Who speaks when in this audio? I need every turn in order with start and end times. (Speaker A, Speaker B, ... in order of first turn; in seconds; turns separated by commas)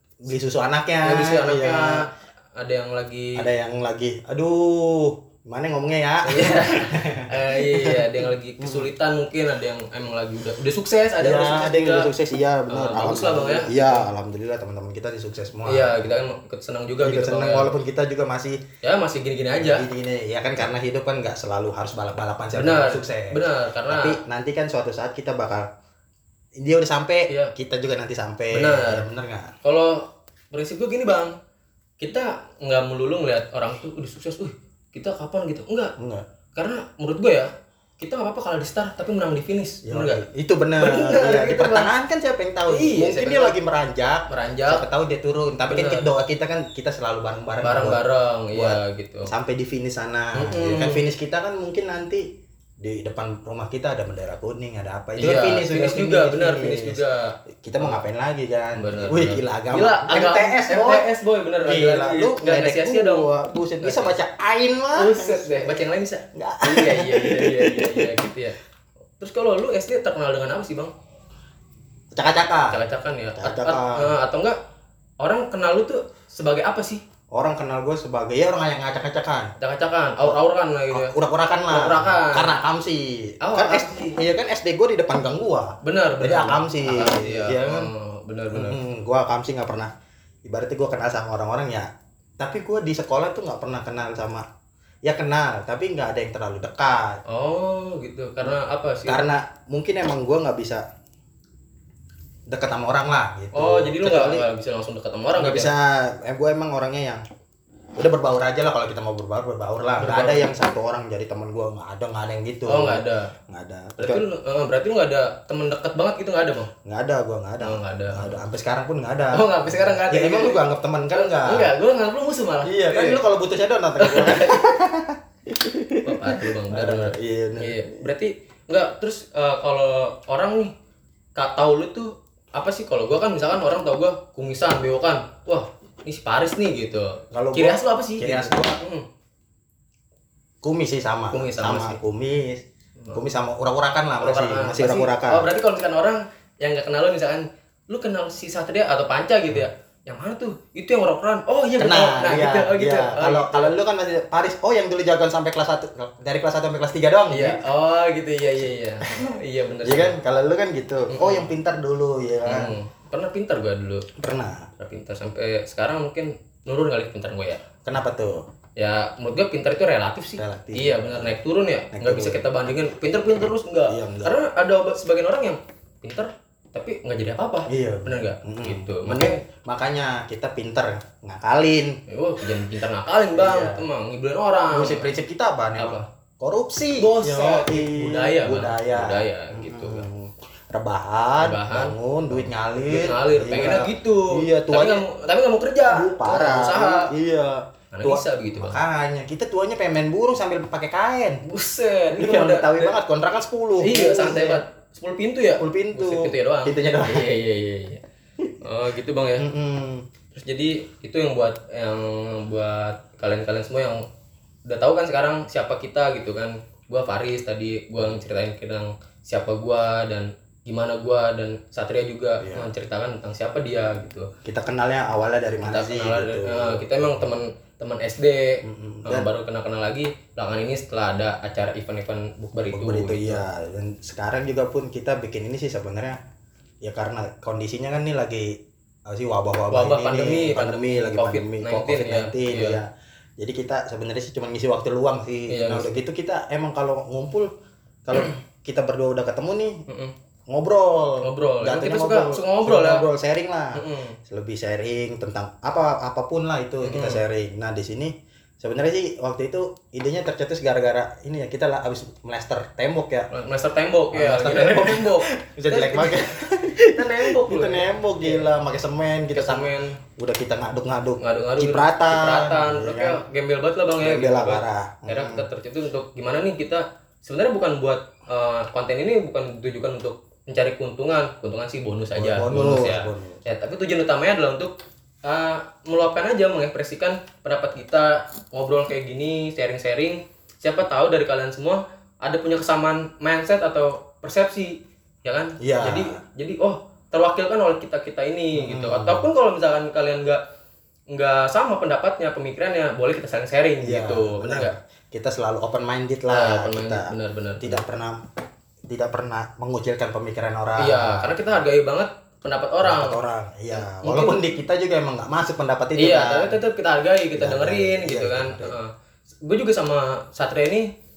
Speaker A: 0.2-2.0, Speaker B: 1.0-3.5, Speaker A: 3.3-8.9, Speaker B: 6.2-12.1, Speaker A: 11.2-16.1, Speaker B: 12.7-14.1, Speaker B: 15.7-17.7, Speaker A: 17.0-18.6, Speaker B: 18.8-19.9, Speaker A: 19.6-25.6, Speaker B: 22.5-24.1, Speaker A: 26.6-29.5, Speaker B: 28.5-29.0, Speaker B: 29.6-31.3, Speaker B: 32.0-35.9, Speaker A: 36.0-36.2, Speaker B: 36.5-40.2, Speaker A: 39.8-48.0, Speaker B: 40.8-41.9, Speaker B: 42.7-43.5, Speaker B: 44.3-44.9, Speaker B: 45.6-46.0, Speaker B: 47.6-49.3, Speaker A: 48.5-52.2, Speaker B: 50.4-51.0, Speaker A: 52.8-57.0, Speaker B: 55.2-58.0, Speaker A: 57.6-61.1, Speaker B: 58.8-63.3, Speaker A: 61.6-65.8, Speaker B: 63.8-64.2, Speaker B: 64.9-68.6, Speaker A: 66.3-68.1, Speaker B: 69.2-70.9, Speaker A: 72.1-72.8, Speaker B: 72.7-74.6, Speaker A: 73.3-74.1, Speaker B: 75.2-77.0, Speaker A: 77.3-79.5, Speaker B: 79.6-82.6, Speaker A: 80.9-87.9, Speaker B: 83.4-84.2, Speaker B: 85.8-88.8, Speaker A: 88.5-89.9, Speaker A: 90.4-91.9, Speaker A: 92.4-94.4, Speaker A: 95.0-97.2, Speaker B: 97.3-99.2, Speaker A: 98.4-100.8, Speaker A: 102.5-104.4, Speaker B: 103.5-105.7, Speaker A: 105.3-107.2, Speaker A: 108.0-114.2, Speaker B: 110.0-110.5, Speaker B: 112.7-113.3, Speaker B: 114.0-116.7, Speaker A: 116.8-121.7, Speaker B: 117.6-118.4, Speaker B: 119.3-123.2, Speaker A: 122.6-128.0, Speaker B: 124.0-124.7, Speaker B: 126.0-130.7, Speaker B: 131.3-139.1, Speaker A: 137.3-138.8, Speaker A: 140.6-145.5, Speaker B: 141.3-142.0, Speaker B: 144.2-153.8, Speaker A: 151.8-157.6, Speaker B: 157.3-160.2, Speaker A: 159.8-162.7, Speaker B: 161.1-161.5, Speaker B: 162.4-164.1, Speaker A: 164.2-164.7, Speaker B: 164.8-167.6, Speaker A: 167.8-168.4, Speaker B: 168.8-179.4, Speaker A: 170.4-171.4, Speaker A: 171.9-172.4, Speaker A: 173.9-174.4, Speaker A: 177.7-182.0, Speaker B: 182.1-185.1, Speaker A: 183.3-183.8, Speaker A: 184.7-195.1, Speaker B: 185.8-186.0, Speaker B: 186.9-190.1, Speaker B: 191.4-197.1, Speaker A: 195.9-201.4, Speaker B: 197.9-198.8, Speaker B: 201.4-203.0, Speaker A: 202.1-204.6, Speaker B: 203.8-208.0, Speaker A: 205.6-207.3, Speaker B: 208.6-209.4, Speaker A: 209.4-210.0, Speaker B: 210.3-214.0, Speaker B: 214.7-224.3, Speaker A: 222.4-222.7, Speaker A: 224.4-227.3, Speaker B: 225.6-233.4, Speaker A: 228.6-229.3, Speaker A: 232.6-236.2, Speaker A: 236.8-238.5, Speaker A: 239.1-242.9, Speaker B: 239.7-242.8, Speaker A: 243.4-247.5, Speaker B: 245.5-245.9, Speaker A: 248.1-249.8, Speaker B: 249.9-250.1, Speaker A: 250.5-263.3, Speaker B: 251.2-253.0, Speaker B: 253.7-254.2, Speaker B: 256.8-257.2, Speaker B: 263.3-266.4, Speaker A: 264.1-273.2, Speaker B: 266.9-268.5, Speaker B: 269.3-270.0, Speaker B: 271.2-300.4, Speaker A: 274.0-275.4, Speaker A: 282.1-283.4, Speaker A: 295.6-296.1, Speaker A: 298.5-299.3, Speaker B: 301.1-304.8, Speaker A: 303.8-308.1, Speaker B: 306.3-307.8, Speaker A: 308.9-311.4, Speaker B: 310.8-313.2, Speaker A: 312.8-316.6, Speaker B: 313.7-314.4, Speaker B: 316.0-318.9, Speaker A: 317.4-318.8, Speaker B: 319.4-320.9